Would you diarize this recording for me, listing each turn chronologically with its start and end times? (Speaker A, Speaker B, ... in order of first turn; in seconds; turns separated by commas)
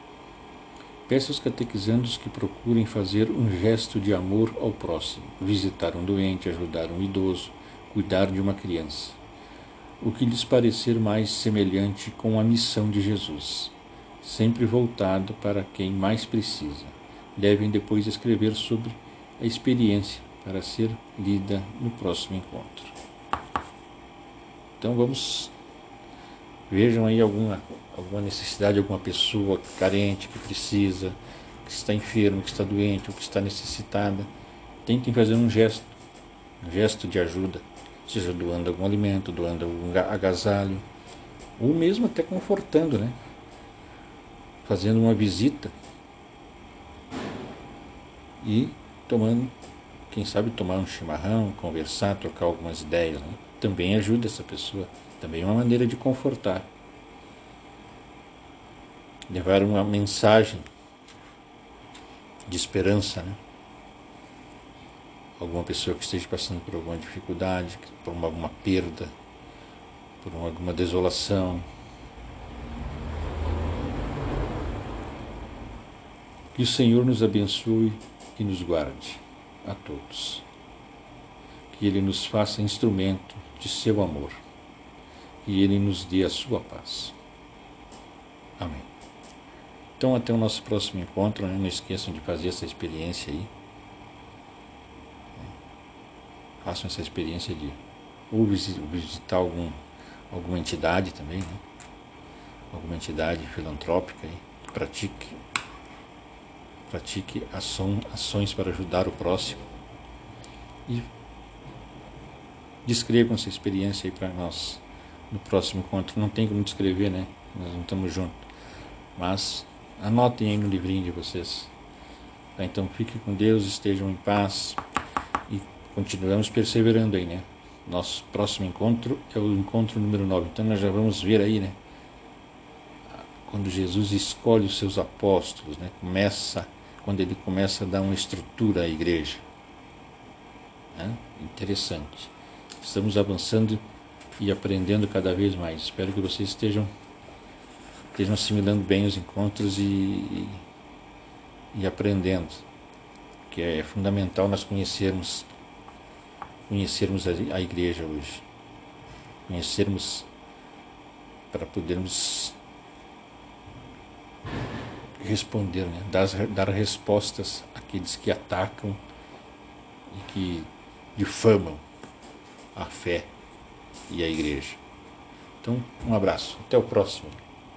Speaker A: 1.1-9.2, Speaker A: 10.0-22.9, Speaker A: 24.8-25.5, Speaker A: 26.7-34.3, Speaker A: 34.8-35.9, Speaker A: 36.6-40.9, Speaker A: 41.6-43.1, Speaker A: 44.6-45.7, Speaker A: 48.4-49.5, Speaker A: 50.1-56.7, Speaker A: 59.3-60.7, Speaker A: 62.5-63.4, Speaker A: 65.4-69.1, Speaker A: 70.2-71.7, Speaker A: 76.5-80.4, Speaker A: 81.7-84.4, Speaker A: 85.4-87.1, Speaker A: 88.6-88.9, Speaker A: 90.0-93.5, Speaker A: 96.6-97.8, Speaker A: 98.3-99.8, Speaker A: 100.3-101.6, Speaker A: 102.7-105.4, Speaker A: 106.9-109.6, Speaker A: 112.8-118.4, Speaker A: 119.2-121.7, Speaker A: 122.6-124.8, Speaker A: 125.5-131.8, Speaker A: 133.2-139.4, Speaker A: 140.9-143.8, Speaker A: 144.4-146.9, Speaker A: 148.1-150.6, Speaker A: 151.7-152.6, Speaker A: 153.5-155.5, Speaker A: 156.7-158.4, Speaker A: 159.5-160.3, Speaker A: 161.5-162.6, Speaker A: 165.2-169.0, Speaker A: 170.1-171.8, Speaker A: 172.7-173.3, Speaker A: 174.1-174.8, Speaker A: 175.6-177.4